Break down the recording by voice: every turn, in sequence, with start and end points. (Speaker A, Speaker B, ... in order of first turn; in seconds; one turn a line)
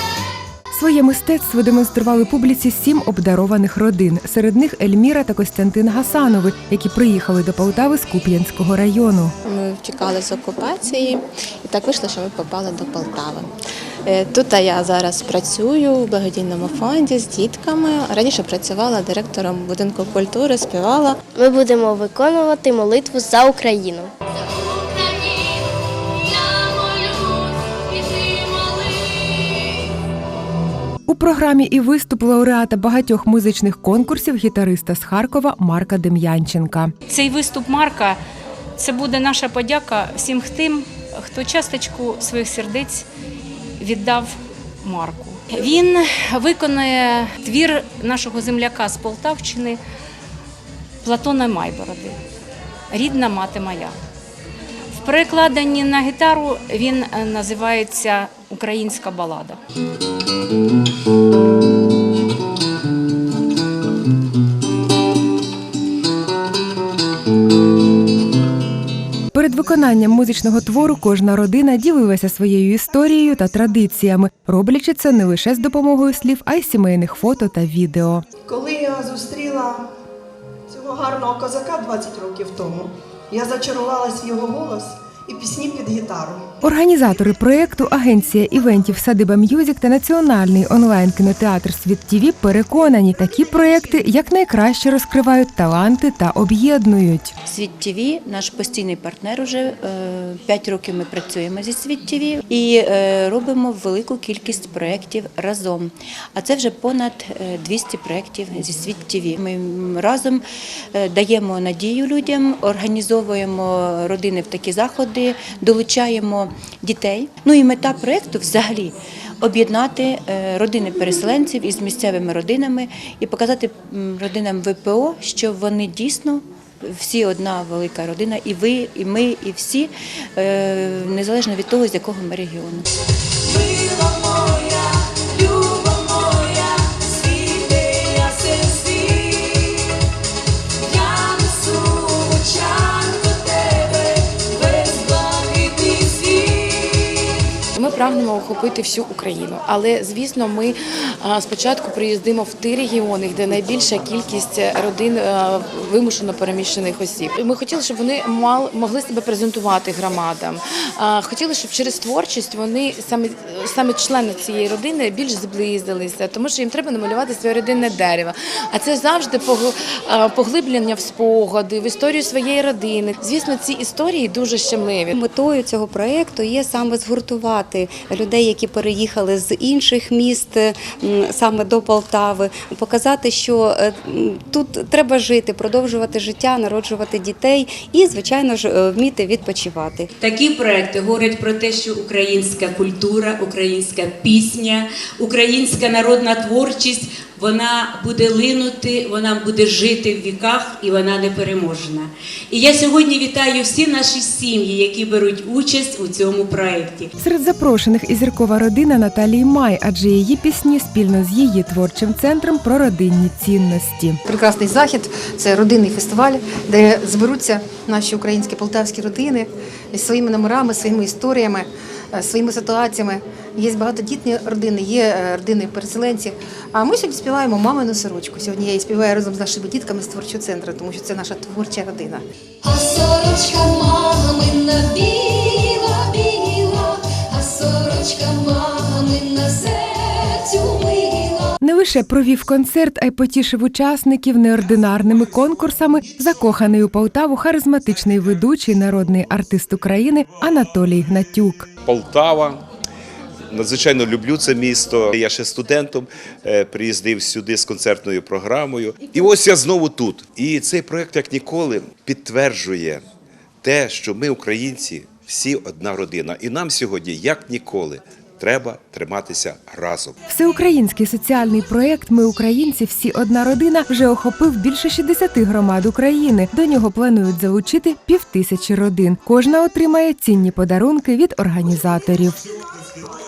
Speaker A: 0.7-9.3
Speaker B: 9.4-13.5
Speaker B: 14.1-21.2
Speaker C: 21.4-24.1
Speaker A: 31.1-36.9
Speaker D: 37.1-38.2
Speaker D: 38.8-43.0
Speaker D: 43.8-49.8
Speaker D: 51.0-52.2
Speaker D: 52.9-53.9
Speaker D: 54.9-59.6
Speaker A: 69.3-78.2
Speaker E: 78.5-79.9
Speaker E: 80.7-86.5
Speaker A: 86.6-97.3
Speaker F: 97.4-132.9
Speaker G: 133.6-139.8
Speaker G: 140.9-147.1
Speaker H: 147.7-175.1
Speaker I: 175.1-190.1
Speaker G: 190.2-207.1
Speaker A: 207.2-214.2
Speaker J: 214.2-232.2
Speaker K: 232.6-241.5
Speaker A: 241.6-251.7
Speaker L: 251.8-252.6
Speaker L: 253.5-263.0
Speaker L: 263.6-270.1
Speaker A: 270.3-282.4